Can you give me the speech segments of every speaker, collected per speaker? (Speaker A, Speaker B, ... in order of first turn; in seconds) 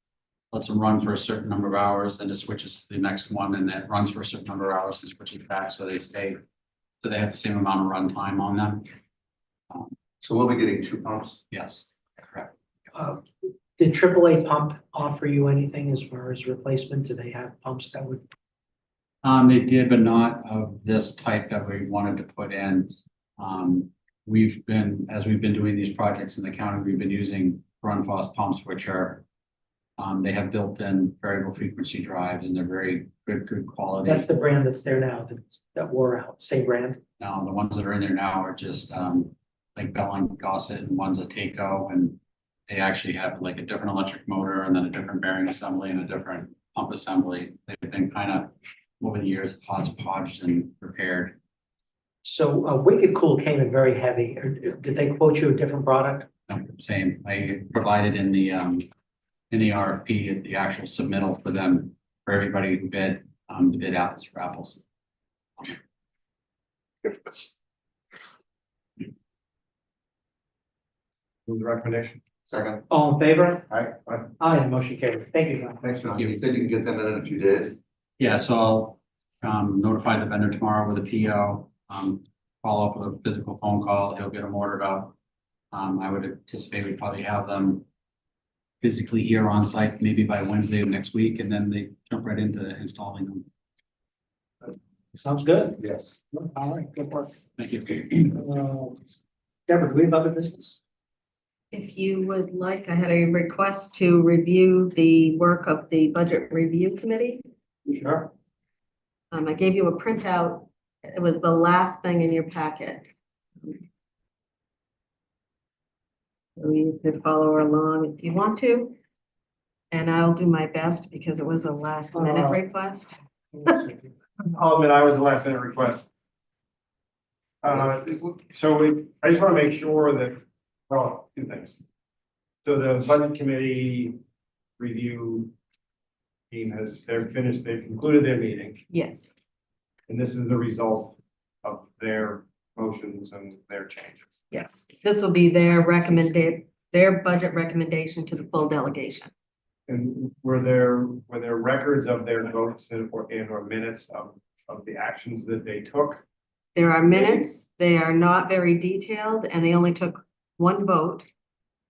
Speaker A: 0.5-6.4, 7.0-8.9, 11.5-12.5, 19.2-29.2, 30.0-34.3, 37.2-51.4, 56.5-58.9, 59.5-64.8, 78.2-85.2, 85.7-87.9, 88.8-93.5, 97.6-98.1
Speaker B: 10.2-11.4, 72.5-72.8, 73.7-74.0, 75.8-77.8, 95.8-96.1
Speaker C: 12.9-13.2, 13.8-18.2, 34.0-37.0, 52.2-56.3, 72.9-73.7, 74.4-75.9, 95.1-97.4, 98.1-99.0, 99.7-100.8, 107.9-108.3, 122.2-122.5, 123.6-124.1
Speaker D: 71.5-72.2, 124.5-126.1, 127.6-131.8, 132.6-134.2, 134.8-135.5, 136.5-138.8, 140.1-144.4, 149.9-156.2, 157.1-157.4
Speaker E: 101.7-107.4, 109.3-113.1, 116.6-119.0, 119.9-123.8, 138.9-139.3, 144.5-149.3, 156.8-161.3